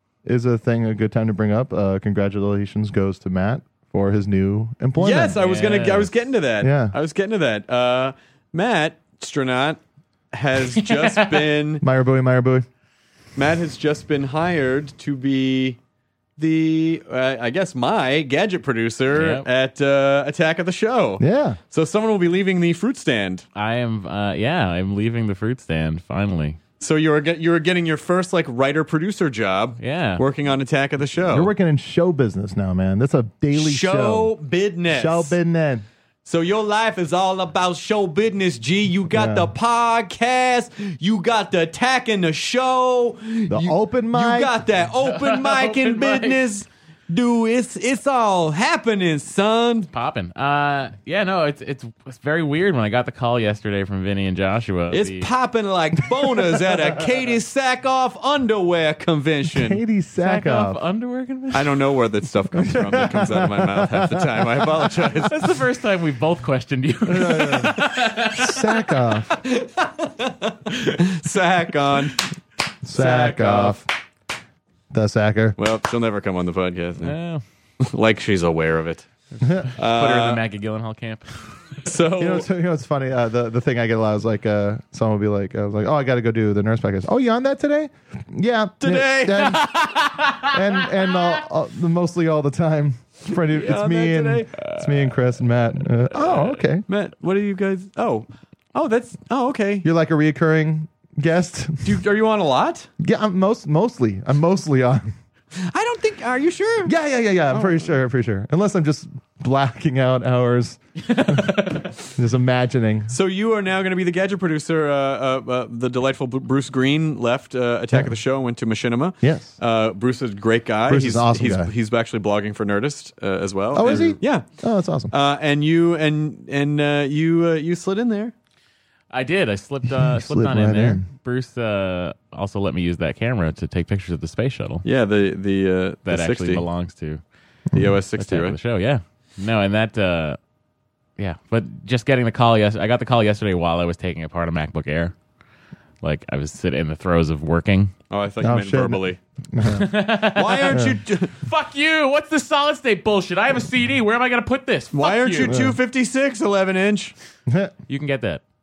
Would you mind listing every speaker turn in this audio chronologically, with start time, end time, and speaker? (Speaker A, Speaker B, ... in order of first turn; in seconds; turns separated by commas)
Speaker A: 0.2-5.4, Speaker B: 5.0-9.8, Speaker C: 5.3-6.1, Speaker A: 6.6-6.9, Speaker B: 10.3-11.8, Speaker C: 10.7-11.5, Speaker A: 11.8-12.7, Speaker B: 13.4-15.8, Speaker B: 16.4-23.4, Speaker C: 19.1-19.5, Speaker A: 21.2-21.6, Speaker C: 23.6-26.6, Speaker B: 26.8-31.5, Speaker C: 29.8-30.2, Speaker A: 31.3-34.3, Speaker B: 33.5-35.4, Speaker A: 34.9-35.9, Speaker B: 36.2-49.9, Speaker A: 39.1-39.5, Speaker A: 43.5-44.5, Speaker C: 45.0-46.4, Speaker C: 49.9-55.3, Speaker B: 54.9-59.8, Speaker A: 59.5-60.8, Speaker C: 60.2-61.8, Speaker B: 61.5-65.5, Speaker A: 62.6-64.5, Speaker C: 65.2-68.5, Speaker A: 67.1-69.4, Speaker B: 69.4-72.2, Speaker A: 72.8-73.9, Speaker B: 73.0-73.7, Speaker C: 73.0-73.7, Speaker A: 74.9-75.6, Speaker B: 75.6-77.1, Speaker C: 77.0-77.4, Speaker B: 77.8-79.1, Speaker C: 79.4-81.8, Speaker A: 79.4-79.7, Speaker B: 79.8-80.4, Speaker B: 81.9-82.5, Speaker A: 82.2-89.7, Speaker B: 88.8-89.7, Speaker C: 89.6-90.6, Speaker A: 90.5-96.8, Speaker B: 93.5-94.5, Speaker C: 94.6-95.2, Speaker C: 96.2-96.6, Speaker B: 96.9-99.9, Speaker A: 99.8-102.0, Speaker B: 101.8-102.9, Speaker A: 103.0-105.1, Speaker B: 105.6-106.9, Speaker A: 106.8-111.6, Speaker B: 107.5-107.8, Speaker C: 111.1-111.9, Speaker A: 112.2-113.1, Speaker B: 113.1-124.5, Speaker A: 119.2-119.6, Speaker A: 120.9-121.7, Speaker A: 123.7-125.1, Speaker B: 125.1-128.3, Speaker C: 129.1-134.8, Speaker A: 130.0-131.1, Speaker B: 134.8-136.6, Speaker C: 136.1-137.2, Speaker B: 137.7-138.6, Speaker C: 138.2-140.4, Speaker C: 141.2-145.1, Speaker C: 146.0-147.9, Speaker B: 148.1-149.2, Speaker A: 148.4-149.9, Speaker C: 149.7-155.6, Speaker B: 150.3-151.3, Speaker A: 150.7-151.0, Speaker B: 154.9-157.1, Speaker A: 155.4-155.8, Speaker A: 157.5-157.7, Speaker C: 157.9-158.4